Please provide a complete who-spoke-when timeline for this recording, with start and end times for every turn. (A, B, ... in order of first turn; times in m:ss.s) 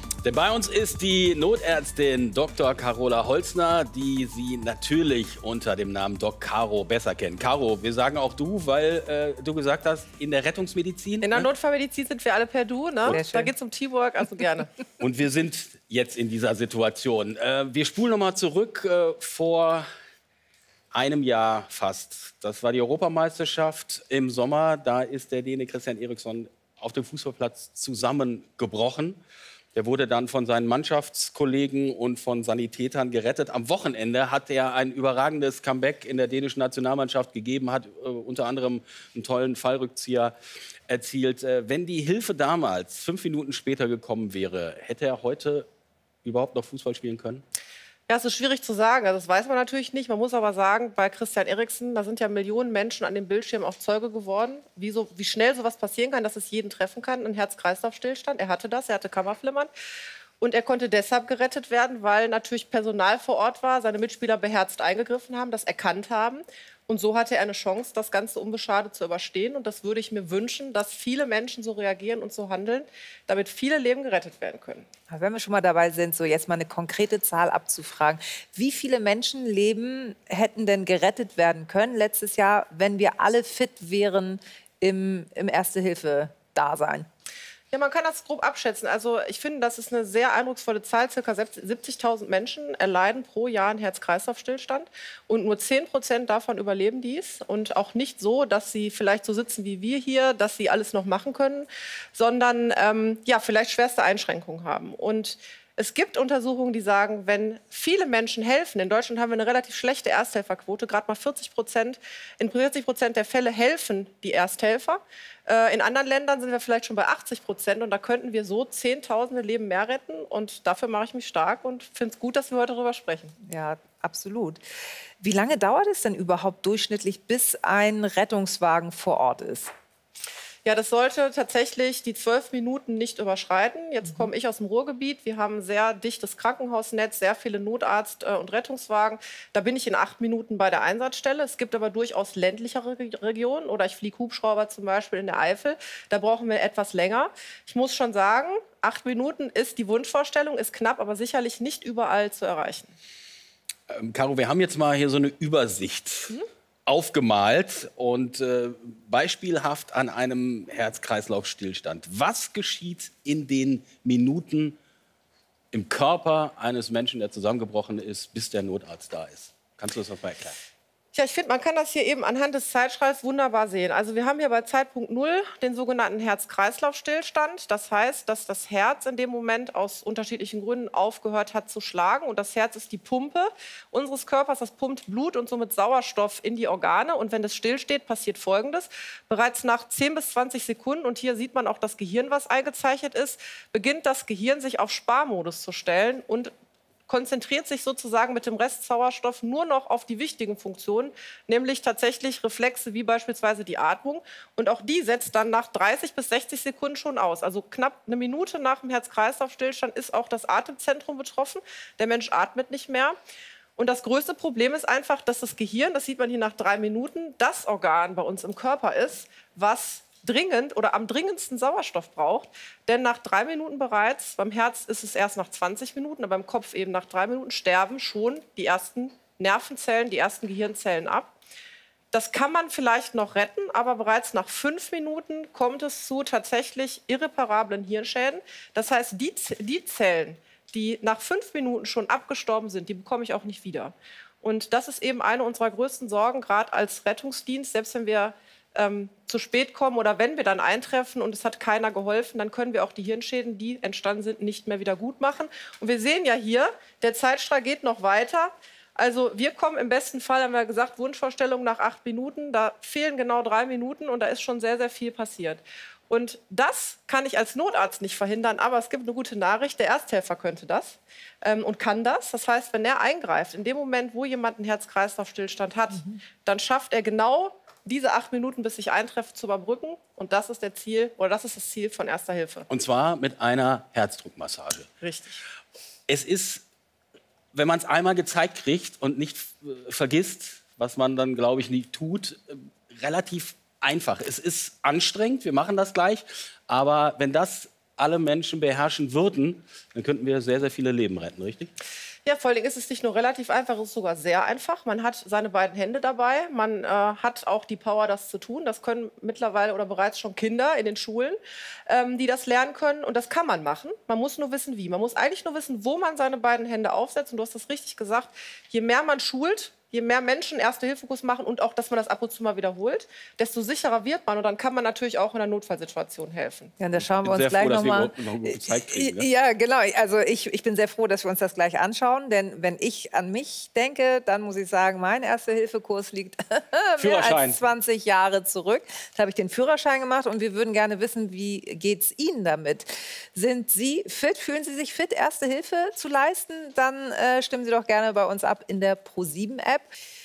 0:00.2-0:11.5 A
0:11.2-0:14.7 B
0:13.1-0:13.5 C
0:15.0-0:19.9 A
0:20.9-0:29.2 A
0:29.8-0:40.4 A
0:40.9-0:45.7 A
0:46.2-0:47.4 A
0:48.1-0:59.7 B
1:00.4-1:14.9 B
1:15.1-1:27.1 C
1:27.7-2:03.4 B
2:03.4-2:04.6 C
2:05.2-2:09.7 C
2:10.6-2:32.9 B
2:33.9-2:36.4 A
2:36.9-2:44.8 A
2:45.7-2:50.6 A
2:51.1-3:16.5 B
3:17.1-3:33.2 B
3:33.8-3:51.3 B
3:52.1-4:42.7 B
4:42.7-4:44.9 A
4:45.0-4:45.4 B
4:46.1-4:46.6 A
4:47.5-5:01.7 A
5:02.2-5:26.7 B
5:26.8-5:49.9 C
5:27.2-5:29.3 A
5:37.0-5:37.6 A